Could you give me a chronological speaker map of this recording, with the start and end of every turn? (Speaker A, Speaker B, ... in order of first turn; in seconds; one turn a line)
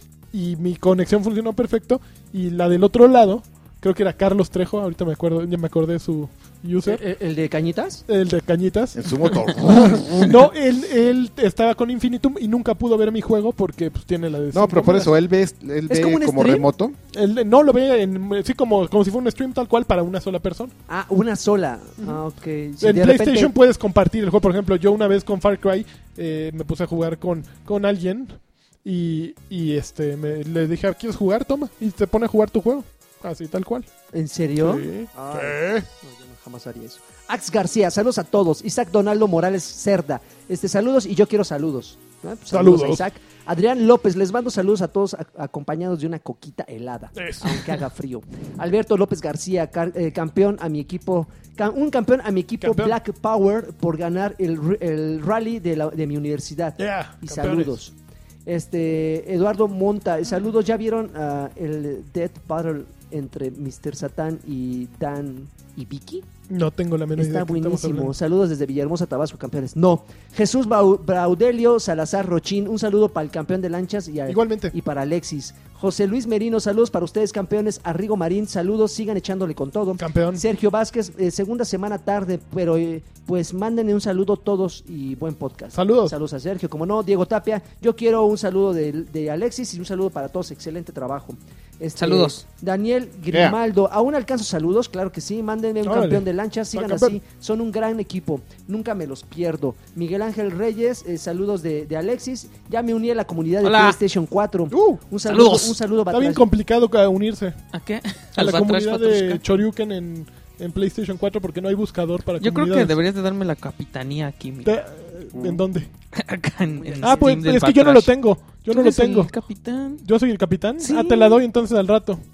Speaker A: 0.3-7.0
Speaker B: 6.8-8.1
Speaker A: 8.1-15.1
Speaker C: 8.9-10.4
Speaker C: 14.5-17.0
Speaker B: 15.9-16.7
Speaker A: 17.1-20.7
Speaker B: 20.9-23.5
Speaker A: 22.8-33.9
Speaker B: 34.1-57.9
Speaker A: 34.6-35.9
Speaker A: 42.5-43.0
Speaker A: 47.1-47.8
Speaker A: 52.6-53.0
Speaker A: 56.8-57.8
Speaker B: 58.5-66.2
Speaker A: 66.5-68.1
Speaker B: 67.2-106.5
Speaker A: 74.3-74.7
Speaker A: 80.0-80.4
Speaker A: 85.7-86.1
Speaker D: 92.0-92.4
Speaker C: 93.3-93.6
Speaker A: 95.8-97.2
Speaker D: 103.6-104.0
Speaker C: 104.7-105.0
Speaker D: 105.3-105.8
Speaker A: 106.1-107.6
Speaker D: 107.7-109.4
Speaker A: 108.3-113.0
Speaker D: 112.4-114.7
Speaker A: 114.6-115.9
Speaker C: 115.3-115.6
Speaker D: 116.1-118.1
Speaker B: 116.7-117.4
Speaker A: 117.0-119.3
Speaker D: 118.6-120.0
Speaker A: 120.0-122.2
Speaker D: 120.8-121.4